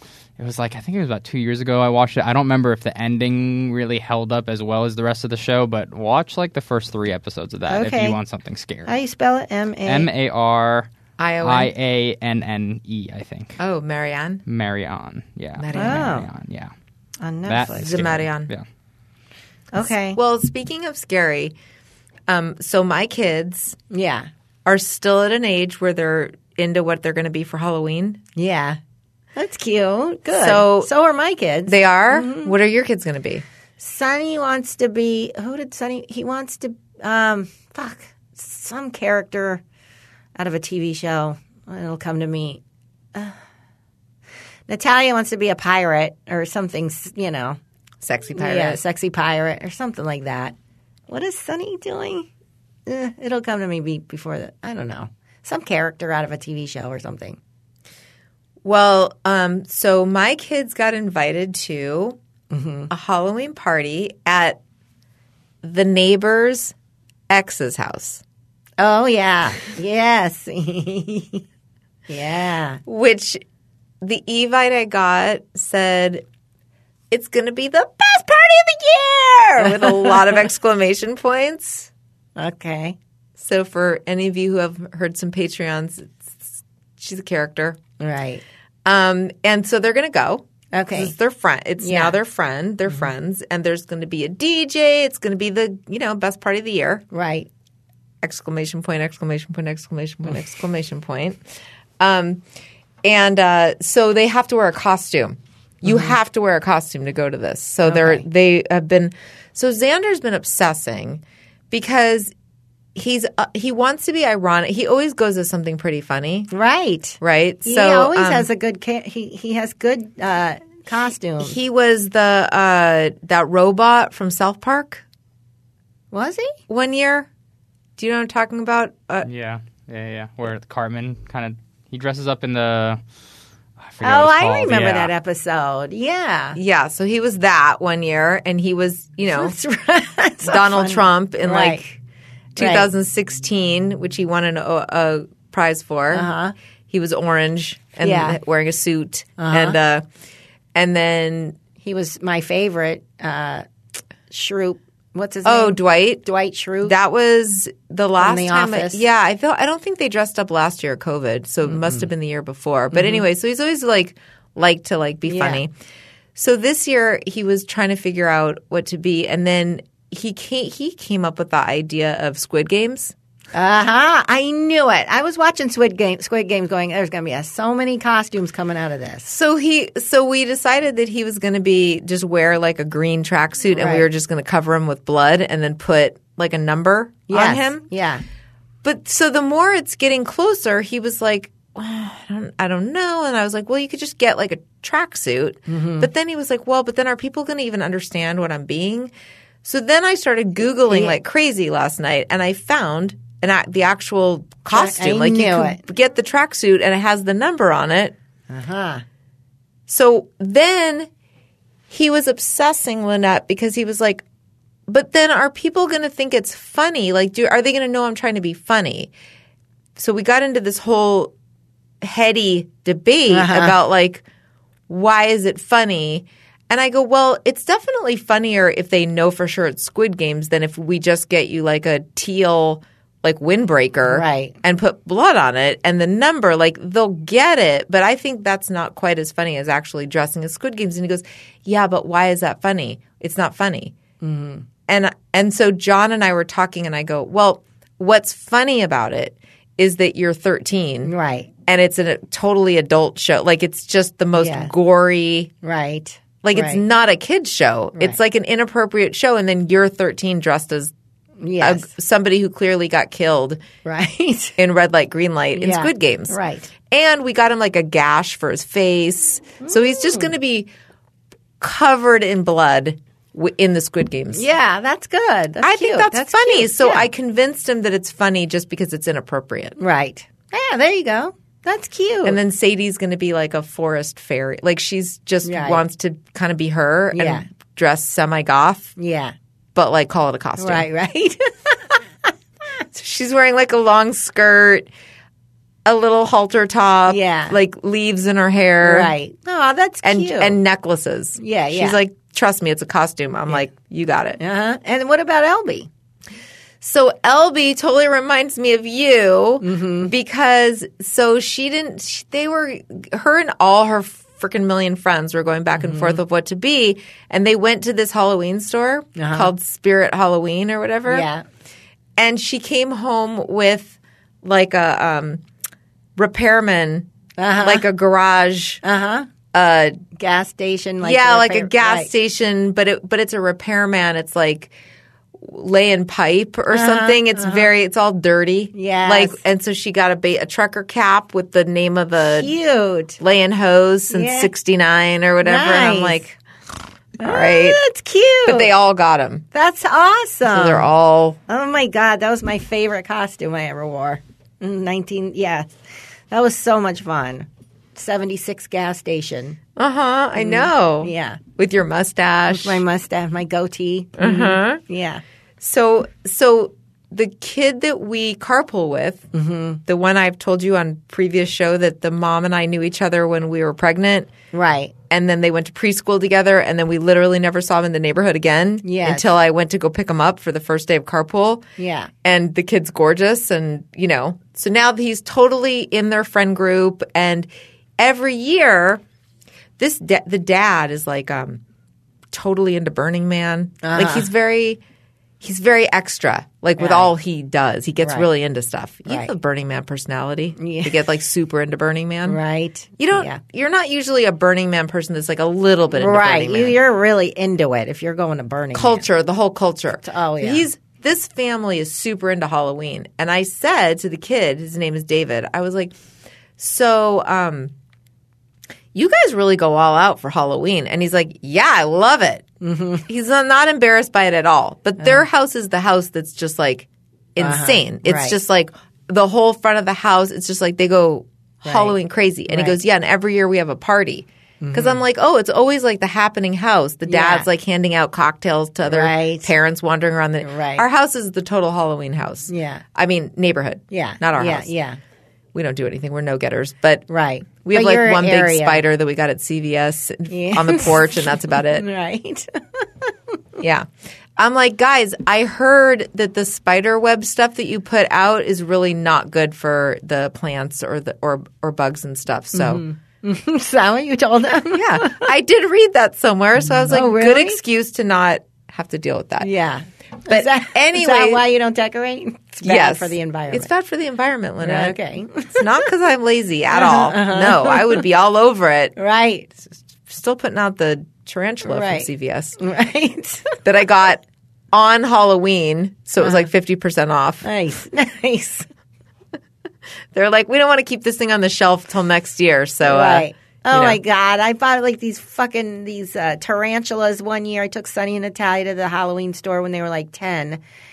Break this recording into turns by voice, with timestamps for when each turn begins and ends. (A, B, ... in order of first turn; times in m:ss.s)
0:00.4-0:08.9 A
0:07.7-0:08.2 B
0:08.9-0:10.1 B
0:09.9-0:10.9 A
0:11.2-0:11.7 C
0:11.4-0:13.6 A
0:13.6-0:14.4 C
0:14.5-0:16.7 A
0:15.6-0:16.2 C
0:15.7-0:16.3 B
0:17.2-0:18.0 B
0:17.5-0:18.6 A
0:17.7-0:18.5 C
0:19.7-0:20.2 B
0:20.2-0:21.6 C
0:22.3-0:23.8 C
0:23.9-0:24.3 B
0:24.6-0:28.2 C
0:28.4-0:28.8 B
0:29.4-0:32.5 B
0:30.3-0:30.9 C
0:31.7-0:33.4 C
0:33.8-0:39.6 B
0:40.4-0:42.6 B
0:44.7-0:47.6 B
0:48.0-0:48.8 C
0:48.4-0:50.6 B
0:51.1-0:52.3 B
0:52.9-0:57.4 B
0:58.6-1:02.2 C
1:02.5-1:02.9 B
1:02.9-1:04.6 C
1:05.6-1:06.7 C
1:07.3-1:08.2 C
1:08.8-1:11.4 B
1:12.1-1:12.8 B
1:12.9-1:13.4 C
1:14.0-1:16.2 C
1:17.1-1:21.9 C
1:19.6-1:20.3 B
1:22.4-1:23.0 B
1:23.4-1:27.8 C
1:28.0-1:28.4 B
1:28.8-1:37.0 C
1:30.7-1:31.1 B
1:31.8-1:32.2 B
1:37.1-1:37.5 B
1:38.2-1:41.4 C
1:42.0-1:42.4 C
1:43.0-1:52.3 C
1:47.9-1:48.2 B
1:53.0-1:56.5 C
1:56.5-2:01.6 B
1:57.2-1:58.5 C
2:01.4-2:05.0 C
2:06.1-2:06.6 B
2:06.7-2:07.3 C
2:08.0-2:09.3 C
2:09.2-2:13.0 A
2:13.8-2:15.1 A
2:14.0-2:16.6 B
2:16.6-2:19.6 C
2:19.3-2:21.8 B
2:20.4-2:22.0 C
2:22.6-2:26.3 C
2:22.6-2:22.9 B
2:26.1-2:26.5 B
2:26.9-2:30.0 C
2:28.0-2:28.4 B
2:29.4-2:29.8 B
2:30.8-2:31.6 C
2:31.8-2:33.6 B
2:34.3-2:37.0 B
2:35.4-2:36.2 C
2:36.8-2:45.7 C
2:38.2-2:39.0 B
2:41.7-2:42.0 B
2:42.9-2:43.2 B
2:45.3-2:45.6 B
2:46.4-2:53.1 C
2:53.5-2:59.3 B
2:59.3-3:07.9 C
3:03.7-3:04.1 B
3:07.3-3:08.2 B
3:08.8-3:19.1 C
3:15.7-3:16.1 B
3:19.6-3:28.2 C
3:20.9-3:21.2 B
3:24.7-3:25.8 B
3:28.5-3:29.0 B
3:29.9-3:31.1 C
3:31.9-3:34.2 C
3:34.9-3:39.1 C
3:40.0-3:41.3 C
3:42.0-3:44.2 C
3:43.3-3:43.8 B
3:44.9-4:04.0 C
3:54.1-3:54.6 B
4:04.2-4:04.7 B
4:04.9-4:11.1 C
4:11.0-4:11.5 B
4:11.7-4:15.5 C
4:14.4-4:14.7 B
4:15.6-4:16.8 B
4:16.4-4:20.9 C
4:21.4-4:21.9 B
4:21.6-4:23.6 C
4:23.8-4:24.6 B
4:24.6-4:30.7 C
4:25.6-4:26.7 B
4:29.6-4:30.3 B
4:31.6-4:34.5 C
4:34.3-4:37.1 B
4:35.6-4:39.8 C
4:39.8-4:42.4 B
4:42.2-4:49.0 C
4:45.4-4:45.8 B
4:47.1-4:47.5 B
4:49.0-4:49.4 B
4:49.8-4:50.9 C
4:50.6-4:52.3 B
4:52.9-4:54.9 C
4:55.8-4:59.1 C
4:57.1-4:57.6 B
4:58.8-5:00.6 B
5:00.0-5:04.4 C
5:01.4-5:02.0 B
5:04.4-5:05.9 B
5:06.8-5:21.3 C
5:09.6-5:10.1 B
5:15.8-5:16.2 B
5:19.2-5:19.5 B
5:21.1-5:21.4 B
5:22.2-5:25.4 C
5:26.2-5:28.8 C
5:27.4-5:27.8 B
5:28.8-5:29.3 B
5:29.5-5:30.0 C
5:30.2-5:32.1 B
5:31.0-5:34.7 C
5:35.4-5:42.5 C
5:36.7-5:37.7 B
5:38.7-5:39.4 B
5:42.3-5:43.2 B
5:43.2-5:46.4 C
5:44.1-5:44.5 B
5:45.4-5:46.2 B
5:47.2-5:47.8 C
5:47.2-5:48.7 B
5:48.5-5:49.4 C
5:49.5-5:50.9 B
5:50.5-5:51.4 C
5:51.5-5:55.7 B
5:56.3-5:59.6 B
5:59.8-6:02.8 C
6:00.4-6:01.4 B
6:02.5-6:05.2 B
6:04.2-6:04.8 C
6:05.6-6:09.3 C
6:09.3-6:09.8 B
6:09.9-6:14.3 C
6:14.5-6:14.9 B
6:15.1-6:21.6 C
6:18.8-6:19.3 B
6:21.8-6:22.1 B
6:22.2-6:29.0 C
6:29.8-6:31.6 C
6:32.3-6:34.8 C
6:33.8-6:34.3 B
6:35.4-6:42.4 C
6:36.8-6:37.1 B
6:40.6-6:41.0 B
6:42.3-6:43.4 B
6:43.0-6:46.8 C
6:45.9-6:49.1 B
6:48.7-6:56.0 C
6:50.0-6:50.7 B
6:56.6-6:57.7 C
6:58.9-7:02.5 C
7:02.6-7:03.1 B
7:03.1-7:24.7 C
7:07.4-7:08.4 B
7:11.6-7:12.0 B
7:12.5-7:12.8 B
7:14.6-7:15.0 B
7:17.1-7:17.5 B
7:18.8-7:19.5 B
7:20.4-7:20.8 B
7:22.5-7:22.8 B
7:23.9-7:25.0 B
7:25.5-7:27.1 C
7:27.1-7:28.8 B
7:27.6-7:31.9 C
7:30.3-7:33.4 B
7:33.6-7:42.8 C
7:42.5-7:45.3 B
7:44.7-7:49.5 C
7:46.7-7:47.6 B
7:49.4-7:53.7 B
7:50.3-7:51.4 C
7:52.6-7:59.0 C
7:54.6-7:55.7 B
7:56.7-7:58.0 B
7:59.0-7:59.5 B
7:59.6-8:02.6 C
8:01.7-8:03.6 B
8:03.6-8:07.5 C
8:07.4-8:08.7 B
8:10.1-8:14.0 C
8:12.8-8:20.6 B